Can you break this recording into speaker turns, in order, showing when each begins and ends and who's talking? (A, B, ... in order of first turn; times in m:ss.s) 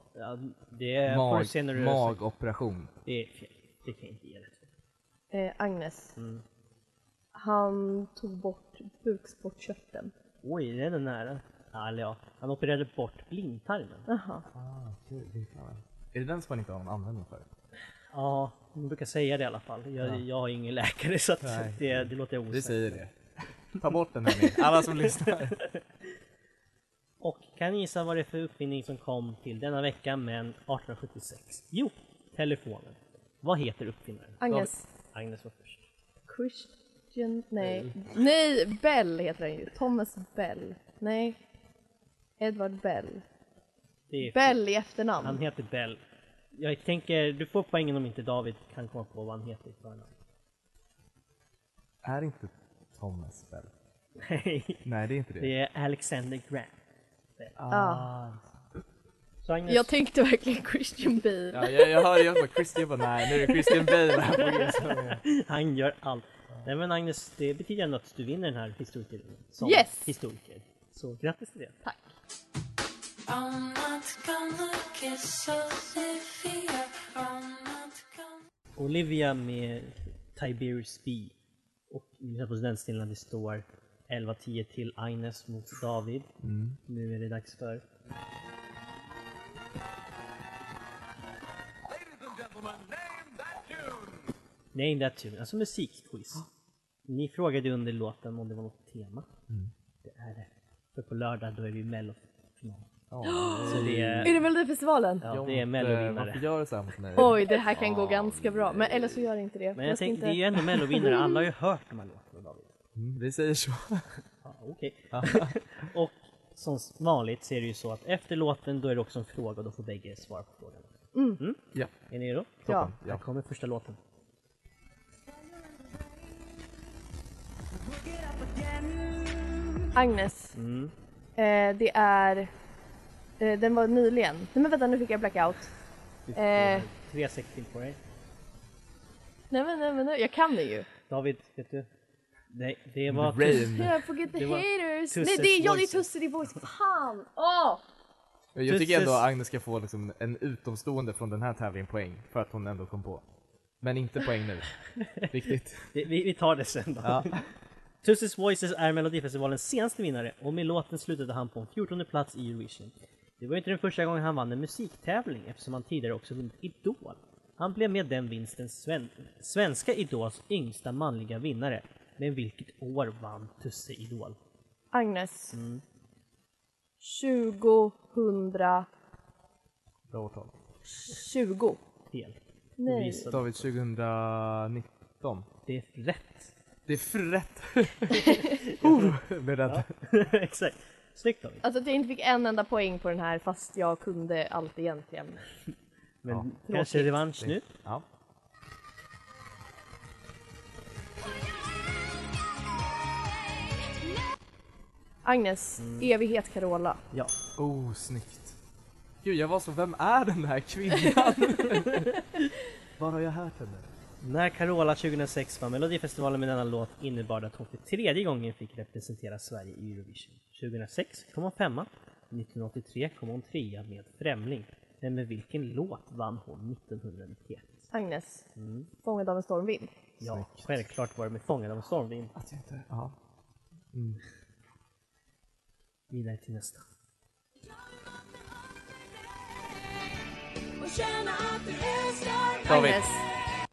0:00.1-0:02.2 A
0:01.0-0:02.9 B
0:03.0-0:04.7 A
0:05.3-0:06.1 C
0:06.2-0:06.4 A
0:07.3-0:10.1 C
0:10.4-0:14.1 A
0:14.1-0:14.4 C
0:14.5-0:17.5 B
0:18.1-0:23.0 A
0:21.4-0:23.2 B
0:23.7-0:25.6 B
0:24.5-0:25.8 A
0:27.2-0:34.4 A
0:34.4-0:34.8 C
0:35.1-0:35.9 A
0:36.3-0:41.4 C
0:42.4-0:43.2 C
0:44.1-0:44.6 A
0:44.2-0:45.4 C
0:45.2-0:46.0 A
0:46.5-0:50.1 A
0:52.0-0:53.7 B
0:54.2-0:54.8 A
0:54.8-0:55.5 B
0:55.4-0:56.8 A
0:57.6-0:58.4 B
0:57.7-0:58.1 C
0:59.4-0:59.9 A
0:59.7-1:02.6 C
1:01.5-1:05.2 B
1:03.4-1:03.9 C
1:04.9-1:11.8 A
1:09.6-1:10.1 C
1:13.2-1:18.4 D
1:18.8-1:21.3 A
1:21.9-1:26.3 A
1:26.4-1:26.8 B
1:26.9-1:27.8 A
1:34.7-1:36.5 A
1:37.0-1:39.3 A
1:40.0-1:42.9 A
1:43.1-1:44.5 B
1:43.2-1:45.3 C
1:43.6-1:44.4 A
1:45.2-1:46.5 A
1:45.3-1:49.2 B
1:47.1-1:51.5 C
1:49.7-1:52.7 A
1:52.9-1:54.1 B
1:54.4-2:04.0 A
1:55.1-1:55.5 B
2:01.1-2:01.4 C
2:02.6-2:03.2 B
2:02.7-2:02.9 C
2:08.1-2:09.5 D
2:09.9-2:10.5 C
2:10.5-2:10.9 A
2:11.4-2:12.5 C
2:13.4-2:15.7 C
2:16.3-2:18.0 A
2:16.3-2:16.9 C
2:19.5-2:20.9 C
2:21.1-2:21.9 A
2:22.5-2:23.7 A
2:23.1-2:24.1 B
2:23.5-2:27.8 C
2:24.3-2:26.1 A
2:28.5-2:33.2 B
2:28.6-2:29.3 A
2:33.8-2:35.9 B
2:35.0-2:35.3 A
2:35.9-2:37.4 A
2:37.0-2:37.4 B
2:38.0-2:54.4 A
2:54.9-2:55.6 C
2:55.5-2:55.8 A
2:57.0-2:58.9 C
3:00.1-3:00.6 B
3:01.0-3:01.8 C
3:02.1-3:03.7 A
3:02.8-3:03.3 C
3:03.3-3:05.5 B
3:05.7-3:06.5 A
3:06.8-3:09.9 B
3:08.6-3:09.1 A
3:09.7-3:11.6 A
3:11.6-3:15.4 C
3:16.2-3:17.6 A
3:16.3-3:18.0 B
3:25.2-3:27.0 C
3:25.8-3:26.1 A
3:27.1-3:28.6 B
3:29.2-3:32.4 B
3:33.0-3:33.9 B
3:34.2-3:47.9 A
3:47.9-3:48.5 C
3:48.6-3:48.9 A
3:49.0-3:49.9 C
3:50.2-3:50.8 B
3:50.2-3:52.3 A
3:52.3-3:53.2 B
3:53.9-3:54.2 B
3:56.1-3:56.8 A
3:57.7-3:58.4 D
3:59.5-4:00.1 D
4:00.8-4:03.2 D
4:02.6-4:03.2 B